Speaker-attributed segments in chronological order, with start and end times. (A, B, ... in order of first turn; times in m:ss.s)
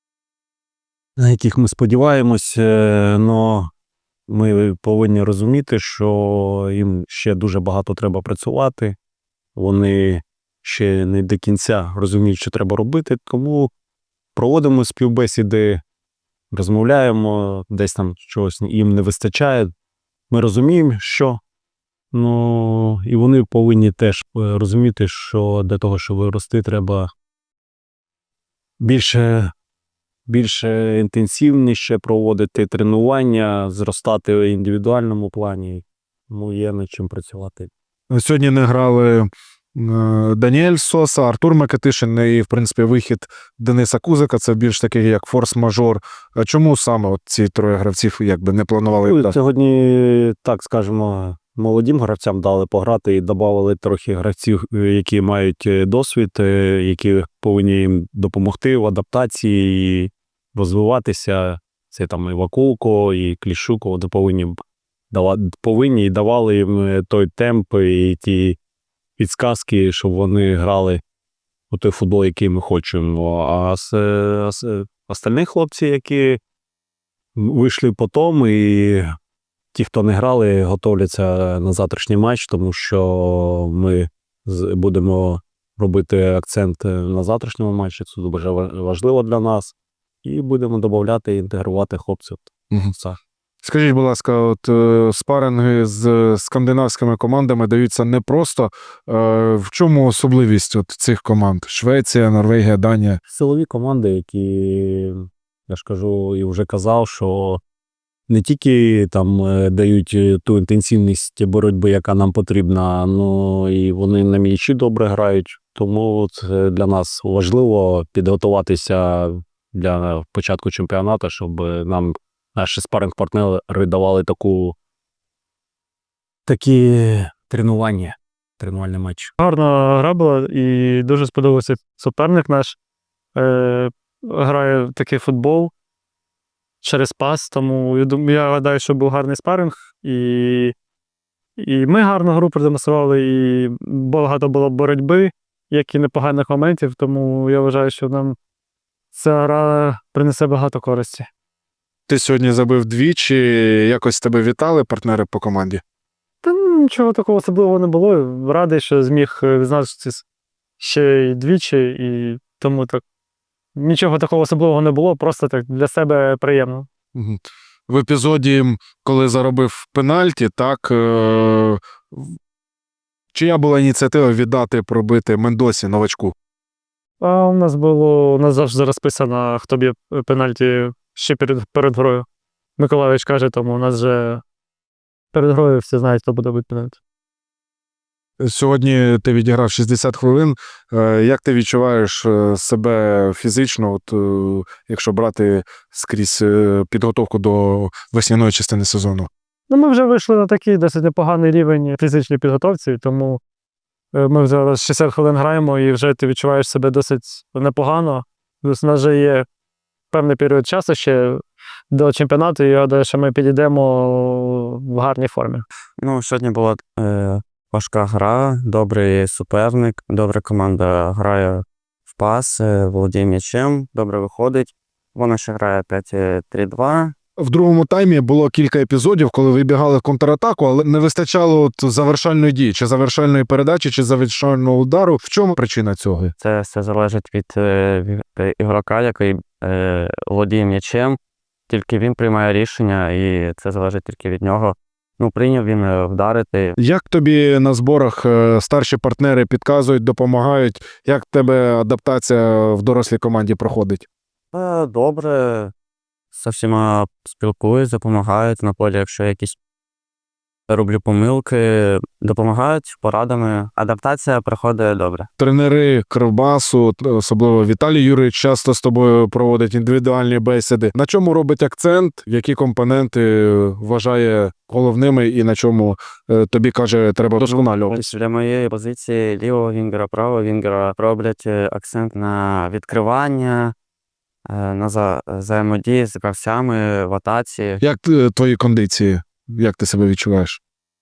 0:01.2-0:03.7 A
0:04.3-0:09.0 A
0:09.6-0:13.7 A
0:14.4-0:15.8 A
0:16.5-0:19.7 A
0:20.3-0:21.4 A
0:22.1-0:27.1 A
0:28.8-0:29.5 A
0:30.3-0:37.7 A
0:38.1-0:49.4 B
0:49.1-1:08.6 A
1:09.2-1:11.0 A
1:11.7-1:16.4 A
1:17.4-1:19.1 A
1:19.7-1:33.2 A
1:33.6-1:43.2 B
1:43.3-1:47.6 A
1:48.3-2:04.8 A
2:06.5-2:09.3 A
2:09.4-2:12.8 C
2:13.4-2:15.7 C
2:16.8-2:20.8 C
2:21.6-2:28.4 C
2:29.1-2:31.3 C
2:32.1-2:35.8 B
2:36.4-2:40.2 C
2:40.8-2:43.0 C
2:43.8-2:46.9 C
2:47.2-2:52.3 B
2:53.3-2:56.3 B
2:57.2-3:02.2 C
3:02.8-3:04.4 C
3:05.3-3:07.0 C
3:08.4-3:19.3 B
3:19.7-3:23.4 C
3:24.1-3:29.4 C
3:30.1-3:35.6 C
3:36.0-3:47.2 D
3:47.4-3:56.3 B
3:56.4-4:01.2 D
4:01.7-4:06.8 D
4:06.8-4:14.0 B
4:14.5-4:15.7 D
4:16.3-4:19.6 D
4:20.7-4:25.3 D
4:25.4-4:38.0 B
4:37.4-4:43.7 D
4:44.4-4:47.8 D
4:47.8-4:50.6 B